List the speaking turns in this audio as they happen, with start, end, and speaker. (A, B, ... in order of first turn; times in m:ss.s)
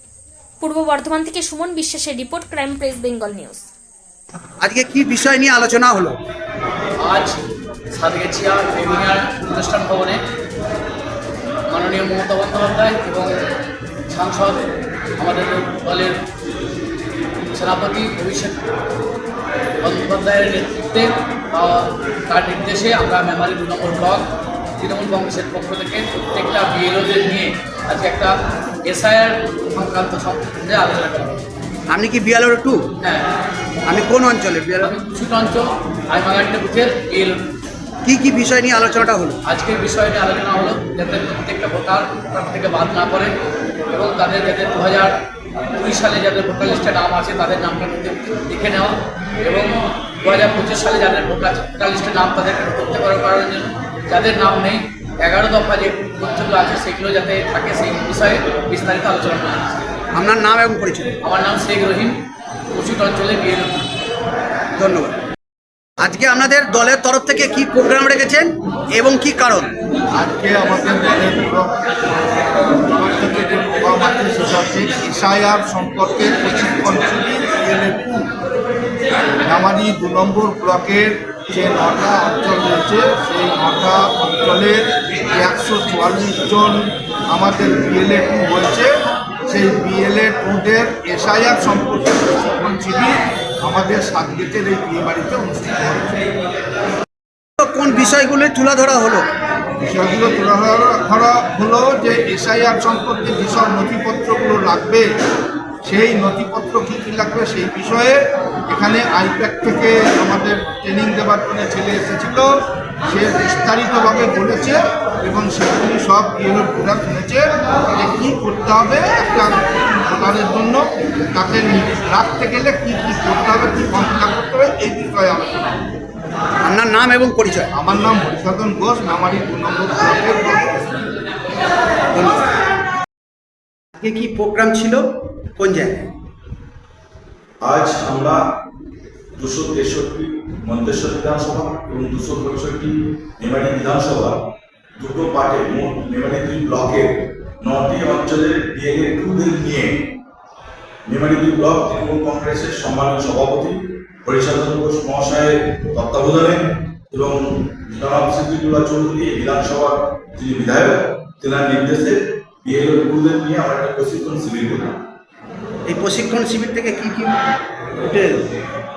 0:00.6-0:03.7 A
0:04.6-0:06.2 B
0:07.0-0:10.2 C
0:11.7-0:13.3 C
0:14.1-0:14.6 C
0:15.2-0:16.2 C
0:17.5-0:18.6 C
0:19.8-0:24.3 C
0:24.8-0:31.4 C
0:31.9-0:32.9 B
0:33.0-0:33.2 C
0:33.8-0:34.9 B
0:34.8-0:37.4 C
0:38.0-0:39.4 B
0:39.4-0:43.3 C
0:43.9-0:45.2 C
0:45.7-0:59.7 C
1:00.1-1:01.1 B
1:01.2-1:02.2 C
1:02.7-1:03.8 C
1:04.7-1:05.2 B
1:06.0-1:09.7 B
1:10.2-1:18.3 D
1:19.4-1:28.9 D
1:29.5-1:36.3 D
1:37.6-1:39.3 B
1:39.8-1:45.0 D
1:45.8-1:52.5 D
1:53.1-2:05.6 D
2:06.6-2:07.7 B
2:07.7-2:10.9 D
2:12.1-2:12.4 B
2:14.0-2:16.1 B
2:17.6-2:18.4 E
2:19.4-2:24.4 E
2:25.0-2:30.0 E
2:31.1-2:44.9 E
2:45.9-2:47.3 B
2:48.0-2:48.4 B